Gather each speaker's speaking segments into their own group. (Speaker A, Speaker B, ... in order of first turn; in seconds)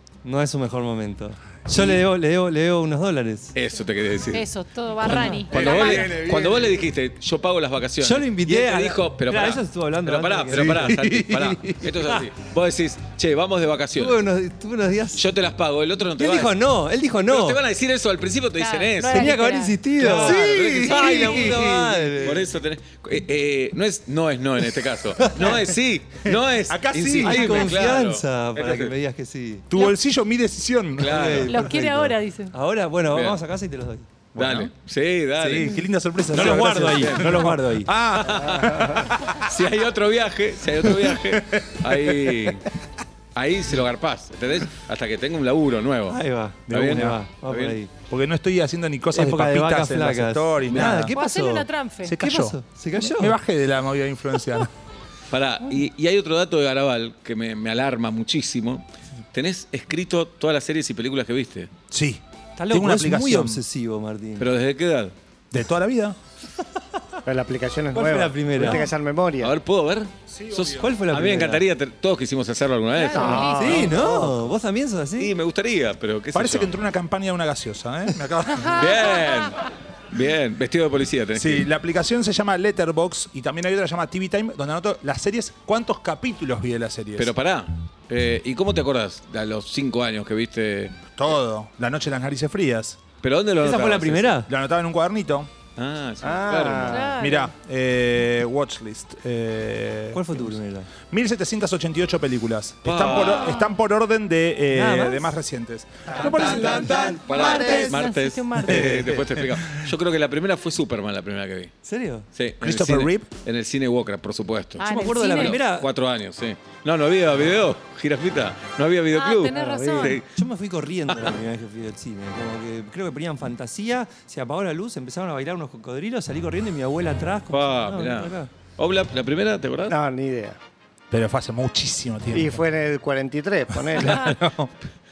Speaker A: 0.2-3.5, 5.0-5.5, 8.0-12.3, 13.9-15.2, 16.2-17.6, 19.1-22.5, 27.2-29.7, 31.0-34.1, 36.3-37.9, 46.1-47.9, 49.1-51.7, 52.2-53.4, 62.6-64.5, 67.9-68.8, 70.8-71.6, 73.5-75.3, 93.6-94.5, 100.1-100.9, 104.7-105.3, 106.4-107.9, 111.8-112.2, 114.8-115.9, 120.1-128.5
Speaker B: 1.7-2.0, 3.5-4.5, 5.0-14.2, 15.2-16.6, 17.3-19.3, 20.0-21.6, 22.2-28.9, 31.0-31.6, 33.1-33.4, 34.4-35.8, 36.3-37.5, 38.1-42.7, 43.3-47.8, 50.7-51.0, 55.3-61.7, 64.4-65.1, 69.4-74.0, 75.2-76.7, 78.7-81.7, 87.2-91.0, 93.2-94.3, 95.8-97.1, 102.8-103.6, 106.2-111.7, 112.3-120.2, 127.5-129.9
Speaker C: 4.3-6.2, 18.6-19.8, 31.4-32.5, 51.1-52.2, 72.9-73.9, 78.7-79.3, 96.9-97.5, 103.4-103.7, 107.3-108.9, 114.8-115.6, 119.1-120.2
Speaker D: 5.5-6.8, 10.5-11.6, 20.0-22.2, 26.2-27.7, 29.7-31.4, 34.3-34.7, 35.4-39.2, 41.0-42.5, 46.7-47.2, 48.1-51.1, 52.0-54.7, 61.9-63.6, 65.5-66.2, 70.3-71.0, 76.3-79.1, 81.3-87.3, 91.1-93.0, 94.5-95.5, 97.2-107.2, 108.6-109.8, 112.6-113.3, 131.1-132.6, 133.9-134.7
Speaker E: 67.2-69.5, 73.1-74.0, 96.2-97.2, 106.8-107.5, 119.5-120.2, 129.9-130.6, 132.3-134.3